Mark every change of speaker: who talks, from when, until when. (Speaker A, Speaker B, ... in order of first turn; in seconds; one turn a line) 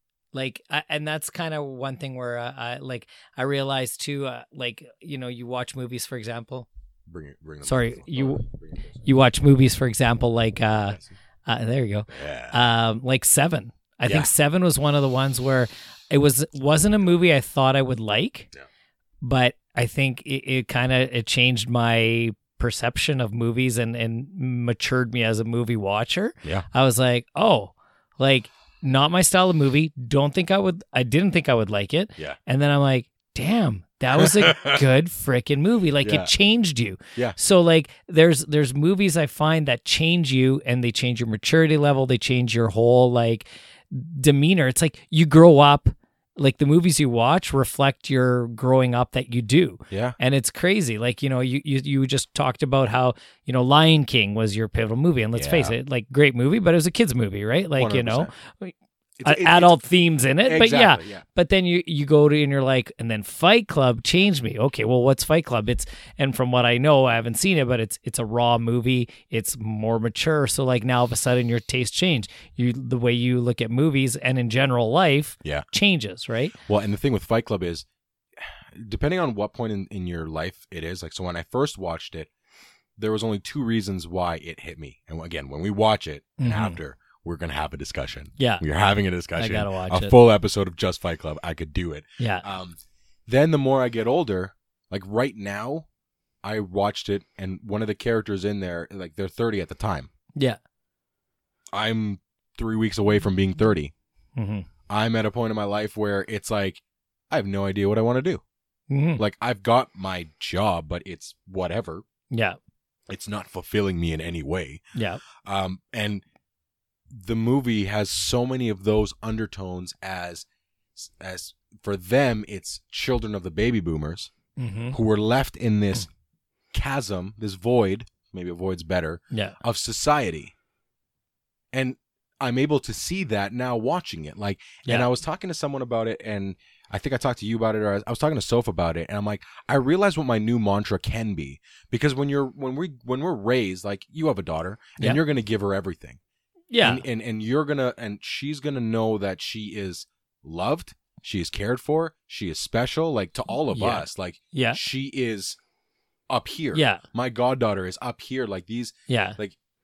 Speaker A: 0.3-6.7
Speaker B: 7.1-9.0
Speaker A: 7.6-8.4
Speaker A: 9.0-18.5
Speaker B: 12.1-12.6
Speaker A: 19.2-58.7
Speaker B: 34.1-34.8
Speaker B: 36.0-36.3
Speaker B: 49.9-50.1
Speaker B: 55.3-55.7
Speaker B: 57.8-58.3
Speaker B: 59.2-59.8
Speaker A: 59.2-76.5
Speaker B: 60.4-61.2
Speaker B: 76.6-77.8
Speaker B: 78.4-82.3
Speaker B: 83.0-95.9
Speaker A: 86.4-86.8
Speaker A: 88.4-88.6
Speaker A: 89.4-90.1
Speaker A: 92.2-92.4
Speaker B: 96.4-100.1
Speaker B: 101.7-103.9
Speaker A: 104.3-104.7
Speaker B: 104.9-108.4
Speaker A: 108.9-109.2
Speaker B: 109.2-112.0
Speaker A: 112.3-112.6
Speaker B: 113.1-114.8
Speaker A: 114.9-115.2
Speaker B: 115.4-116.2
Speaker B: 117.1-124.3
Speaker A: 124.6-125.0
Speaker B: 124.9-126.1
Speaker B: 126.7-130.5
Speaker A: 129.3-129.6
Speaker B: 131.7-146.2
Speaker A: 146.7-147.0
Speaker B: 146.8-155.6
Speaker A: 153.7-154.8
Speaker B: 156.3-159.6
Speaker A: 156.7-157.0
Speaker A: 159.1-159.4